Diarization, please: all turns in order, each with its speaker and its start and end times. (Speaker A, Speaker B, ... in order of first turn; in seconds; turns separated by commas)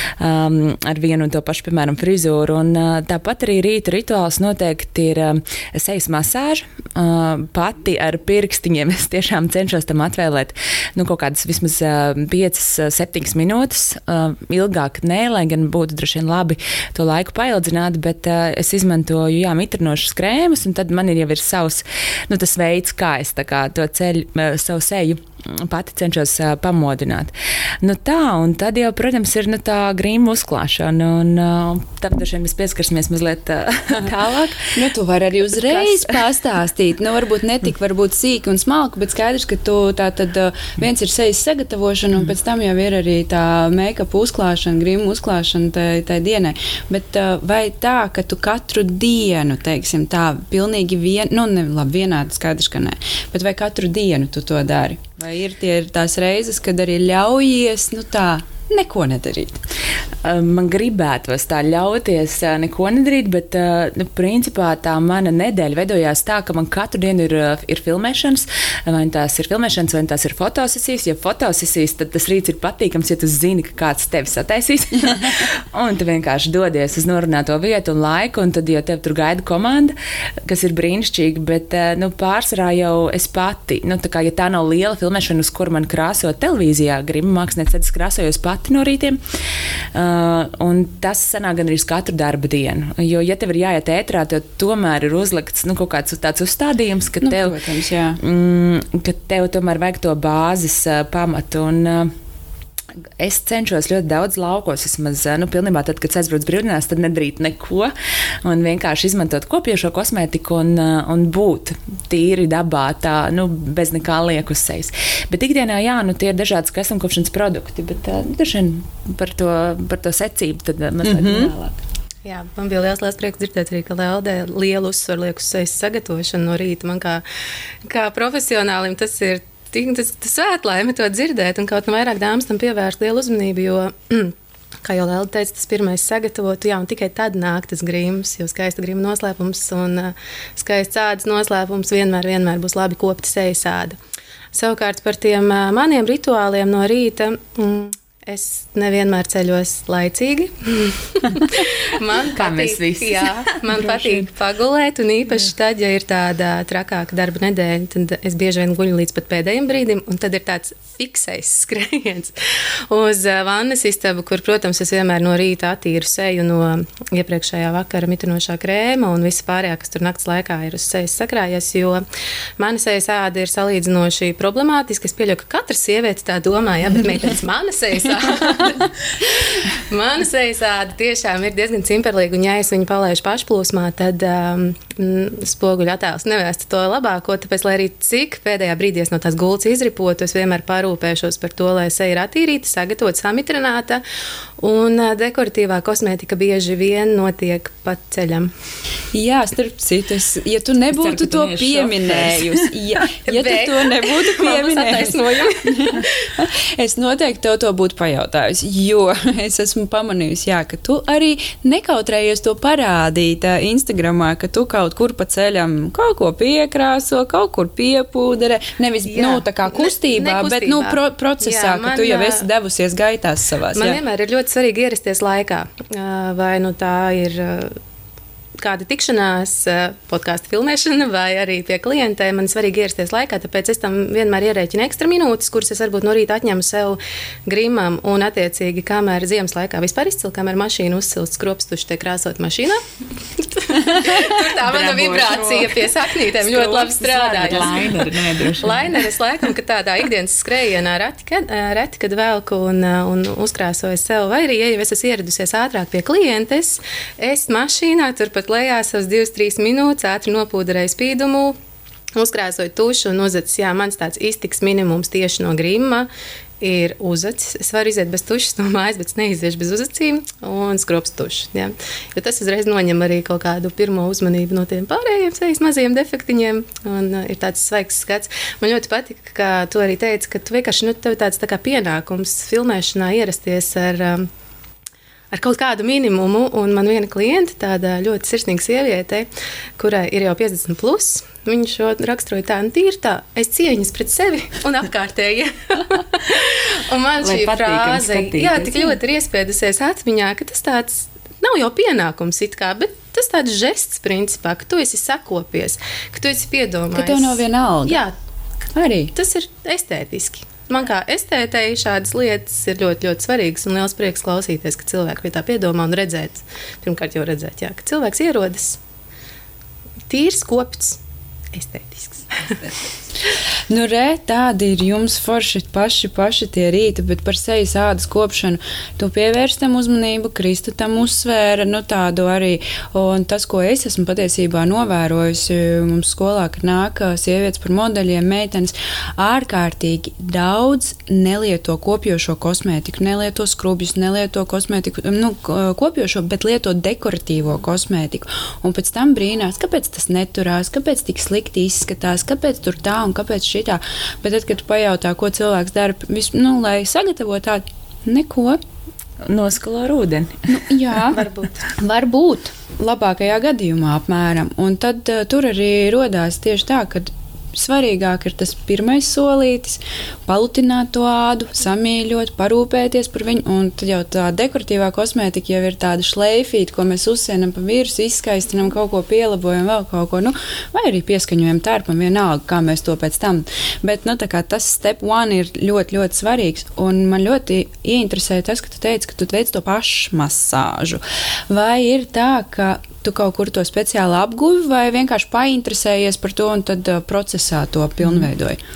Speaker A: 0.2-34.7, Speaker B: 34.7-59.6, Speaker A: 35.5-36.2, Speaker A: 60.2-89.2, Speaker A: 89.9-97.6, Speaker B: 97.2-98.2, Speaker A: 98.2-102.1, Speaker A: 103.2-107.9, Speaker A: 108.4-121.8, Speaker B: 121.0-121.5, Speaker C: 122.2-127.2, Speaker C: 127.8-144.0, Speaker C: 144.5-162.3, Speaker A: 152.3-154.2, Speaker C: 162.9-172.0, Speaker C: 172.6-194.0, Speaker C: 194.6-198.5, Speaker B: 199.1-224.0, Speaker A: 200.9-202.6, Speaker C: 203.3-206.1, Speaker C: 219.1-222.5, Speaker C: 223.8-227.8, Speaker C: 228.6-242.8, Speaker C: 243.4-261.6, Speaker A: 244.0-249.1, Speaker C: 262.1-266.1, Speaker C: 266.6-284.3, Speaker C: 285.3-289.3, Speaker C: 289.8-308.1, Speaker A: 297.2-299.0, Speaker B: 306.9-308.0, Speaker B: 308.8-309.1, Speaker C: 309.1-318.8, Speaker C: 320.1-321.0, Speaker C: 321.5-322.6, Speaker B: 323.7-358.6, Speaker A: 359.2-360.5, Speaker B: 360.5-361.3, Speaker C: 361.1-361.6, Speaker B: 361.8-398.6